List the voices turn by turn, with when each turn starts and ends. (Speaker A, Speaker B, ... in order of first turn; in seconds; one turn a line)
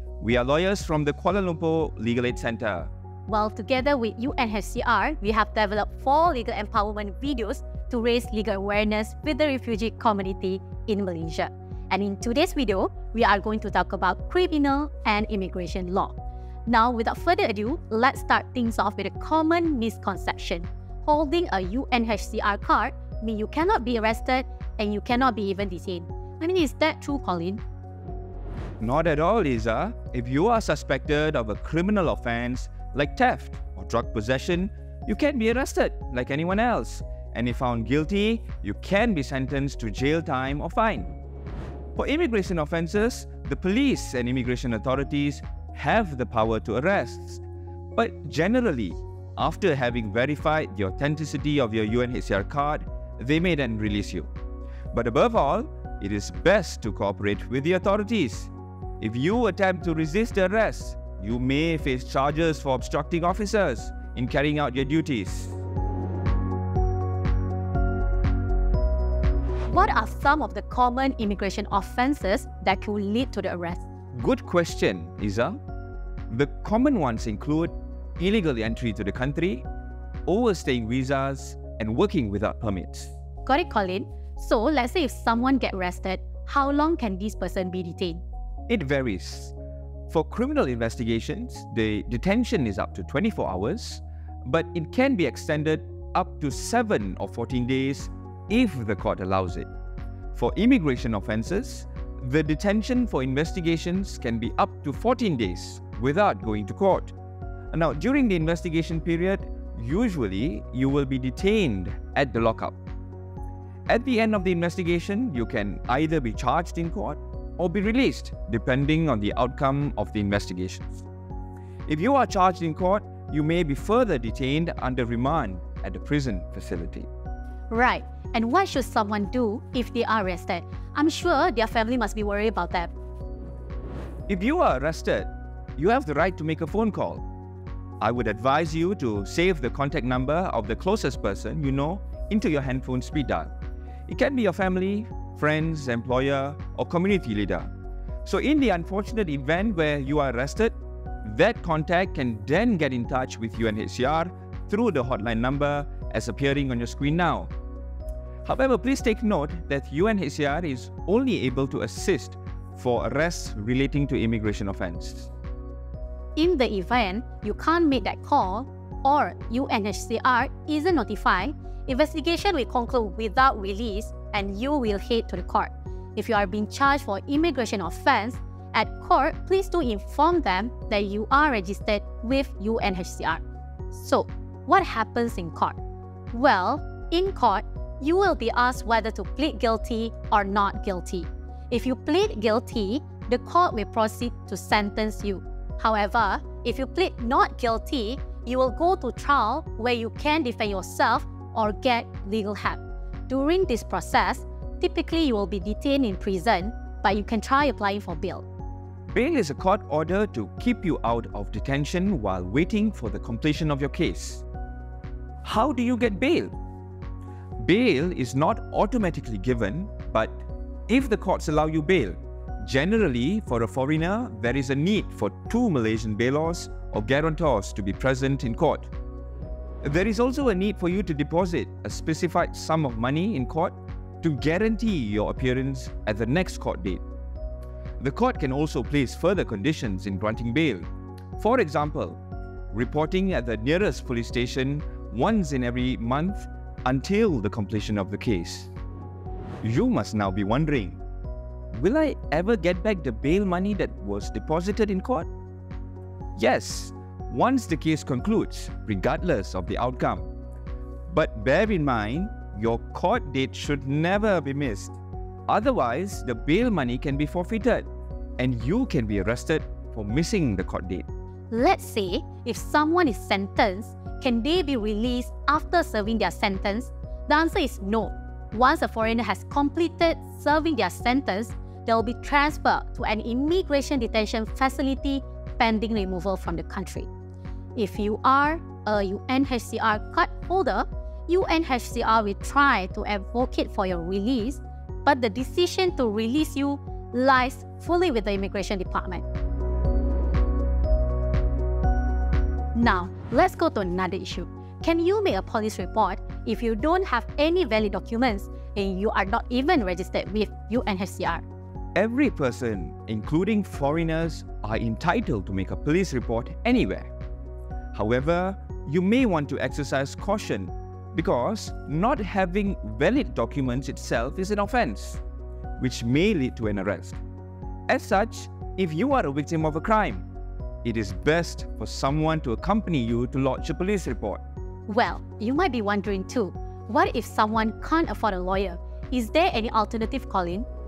Speaker A: 0.2-2.9
Speaker B: 3.3-16.2
Speaker B: 16.7-27.6
Speaker A: 28.8-41.1
Speaker A: 42.0-54.3
Speaker A: 54.9-65.6
Speaker B: 69.7-73.8
Speaker A: 74.1-75.6
Speaker A: 76.3-79.7
Speaker A: 80.3-83.1
Speaker B: 83.5-88.2
Speaker A: 88.7-89.5
Speaker A: 90.1-99.7
Speaker A: 100.3-107.2
Speaker A: 107.7-112.8
Speaker A: 113.9-121.0
Speaker A: 121.9-127.1
Speaker B: 127.7-132.9
Speaker A: 134.3-137.2
Speaker A: 138.0-143.5
Speaker A: 144.1-147.7
Speaker A: 148.2-157.5
Speaker A: 158.4-165.3
Speaker B: 166.4-185.8
Speaker B: 186.3-208.5
Speaker A: 209.1-214.4
Speaker A: 215.4-216.5
Speaker A: 217.6-228.9
Speaker A: 229.8-237.0
Speaker A: 238.0-240.9
Speaker A: 241.4-242.2
Speaker A: 242.7-248.7
Speaker A: 249.6-251.0
Speaker A: 251.7-255.3
Speaker A: 256.4-260.3
Speaker A: 261.1-267.9
Speaker A: 268.4-271.1
Speaker B: 271.5-287.1
Speaker B: 287.8-299.2
Speaker B: 302.8-311.4
Speaker A: 312.0-317.1
Speaker A: 317.9-325.2
Speaker A: 325.8-327.2
Speaker A: 327.9-330.2
Speaker A: 330.8-334.4
Speaker B: 334.9-340.7